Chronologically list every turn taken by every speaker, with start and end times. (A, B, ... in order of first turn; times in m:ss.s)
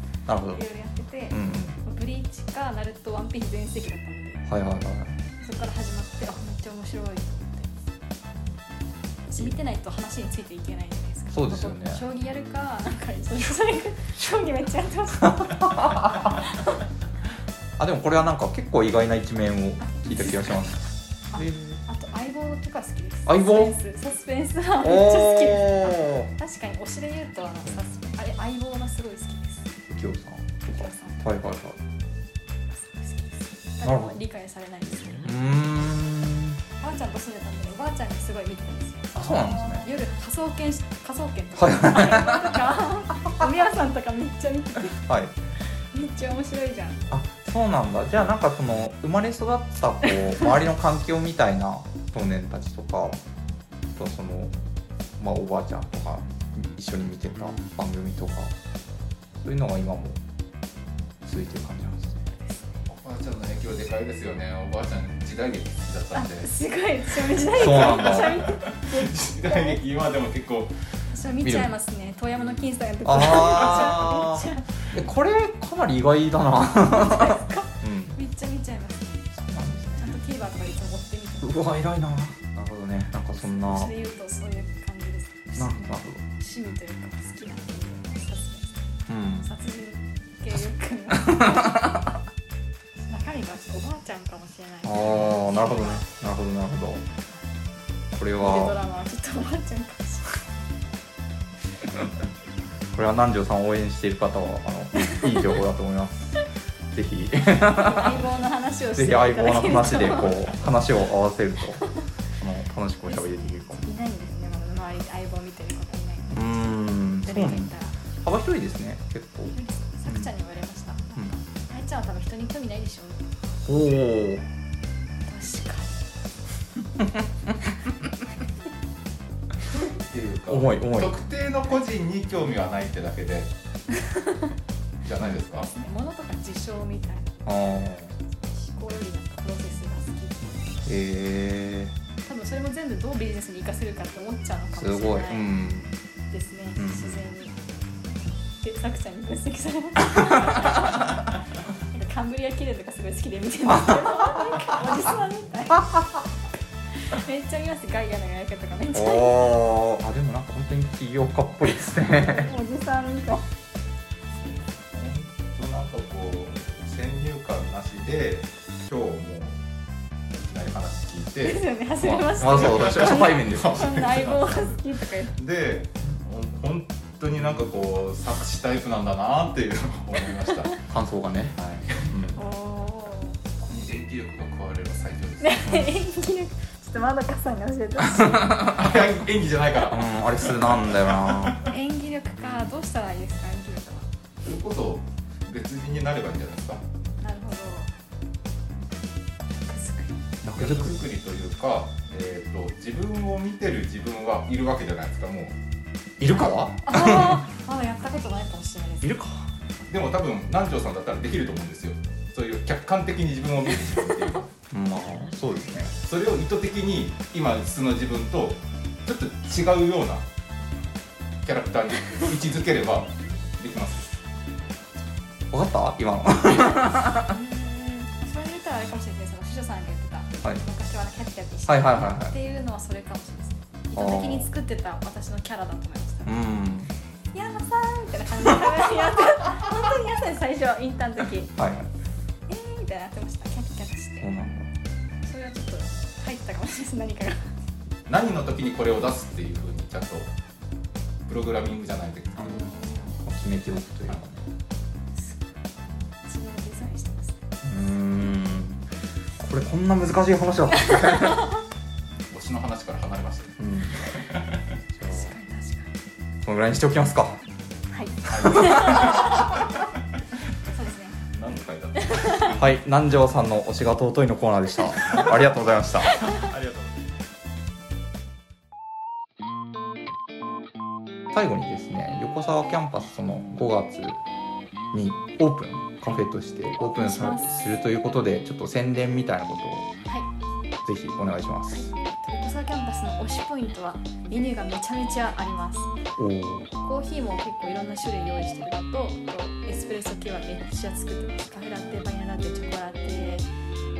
0:00.2-0:00.6 A
0:00.5-0:04.4 B
0:01.3-0:01.8 A
0:04.5-0:05.2 A
0:05.4-0:07.8 B
0:09.3-0:15.9 B
0:11.3-0:12.0 A
0:15.2-0:16.3 A
0:17.8-0:20.8 A
0:19.8-0:20.6 B
0:21.3-0:29.7 B
0:21.3-0:21.8 A
0:23.2-0:23.7 A
0:24.8-0:26.3 A
0:29.9-0:31.8 A
0:30.7-0:31.2 B
0:32.7-0:35.2 B
0:33.8-0:34.2 A
0:35.2-0:36.6 A
0:36.8-0:45.0 B
0:39.1-0:39.9 A
0:41.6-0:42.6 A
0:45.0-0:45.3 A
0:45.8-0:47.2 B
0:47.1-0:53.2 A
0:53.9-0:54.5 A
0:55.2-0:58.5 A
0:59.4-1:00.2 A
1:01.2-1:02.3 A
1:02.3-1:02.8 B
1:02.9-1:06.5 C
1:06.1-1:09.8 B
1:07.5-1:08.4 A
1:07.7-1:10.7 C
1:11.1-1:14.6 B
1:11.4-1:11.7 A
1:13.0-1:18.2 A
1:16.9-1:19.3 B
1:19.3-1:20.1 A
1:20.0-1:21.7 B
1:21.4-1:23.9 A
1:23.3-1:31.9 B
1:25.6-1:26.2 A
1:29.1-1:29.5 A
1:31.1-1:32.0 A
1:33.1-1:36.1 B
1:34.8-1:37.0 A
1:38.1-1:38.8 A
1:38.4-1:40.4 B
1:42.9-1:46.4 A
1:46.9-1:48.2 A
1:47.8-1:50.5 B
1:48.9-1:51.9 A
1:52.4-1:53.9 A
1:53.1-1:56.6 B
1:56.3-2:00.3 A
1:57.2-1:58.0 B
1:59.5-2:03.3 B
2:03.6-2:04.4 A
2:05.2-2:06.0 B
2:07.0-2:07.5 A
2:09.7-2:13.5 C
2:10.5-2:11.1 A
2:15.0-2:15.7 C
2:15.5-2:20.8 B
2:17.4-2:18.1 A
2:20.8-2:21.9 A
2:22.2-2:25.5 B
2:24.7-2:26.0 A
2:26.3-2:27.6 B
2:26.8-2:27.2 A
2:28.6-2:31.0 B
2:31.9-2:36.0 B
2:33.8-2:34.0 A
2:37.0-2:39.6 B
2:38.9-2:42.6 A
2:42.1-2:43.4 B
2:44.3-2:49.6 C
2:50.3-2:51.6 C
2:51.4-2:55.3 B
2:52.0-2:53.9 A
2:52.4-3:00.8 C
3:00.9-3:02.4 A
3:02.4-3:03.4 B
3:03.6-3:05.8 C
3:05.4-3:08.6 B
3:08.0-3:08.9 A
3:08.6-3:11.6 C
3:09.9-3:11.6 A
3:11.7-3:14.1 B
3:14.4-3:16.8 C
3:17.2-3:17.9 B
3:19.5-3:20.2 B
3:20.4-3:21.1 A
3:20.5-3:25.6 C
3:26.2-3:27.4 A
3:26.8-3:29.2 B
3:29.0-3:29.5 A
3:29.9-3:34.5 C
3:34.7-3:35.9 A
3:36.0-3:40.2 C
3:41.4-3:44.1 C
3:45.5-3:47.3 A
3:47.2-3:56.5 B
3:51.7-3:52.3 A
3:53.9-3:54.5 A
3:56.2-3:56.9 A
3:57.3-4:01.5 B
4:01.6-4:01.9 A
4:02.5-4:04.3 B
4:04.2-4:04.7 A
4:05.2-4:07.5 B
4:08.1-4:10.3 C
4:11.3-4:12.7 C
4:12.4-4:13.2 B
4:13.1-4:14.4 A
4:15.1-4:15.7 B
4:16.2-4:17.4 B
4:17.6-4:18.8 A
4:19.4-4:21.5 A
4:21.2-4:21.4 B
4:22.3-4:24.6 C
4:23.6-4:24.1 A
4:24.9-4:25.3 A
4:25.1-4:26.0 B
4:26.4-4:27.4 A
4:27.9-4:29.5 B
4:28.3-4:29.2 A
4:28.3-4:29.6 C
4:30.7-4:31.2 B
4:31.3-4:32.6 C
4:32.0-4:32.5 B
4:32.5-4:36.3 A
4:36.2-4:37.2 C
4:41.3-4:44.2 A
4:44.9-4:49.9 A
4:46.8-4:47.6 B
4:50.8-4:51.9 A
4:51.7-4:55.9 B
4:56.2-4:56.7 A
4:56.8-5:03.5 B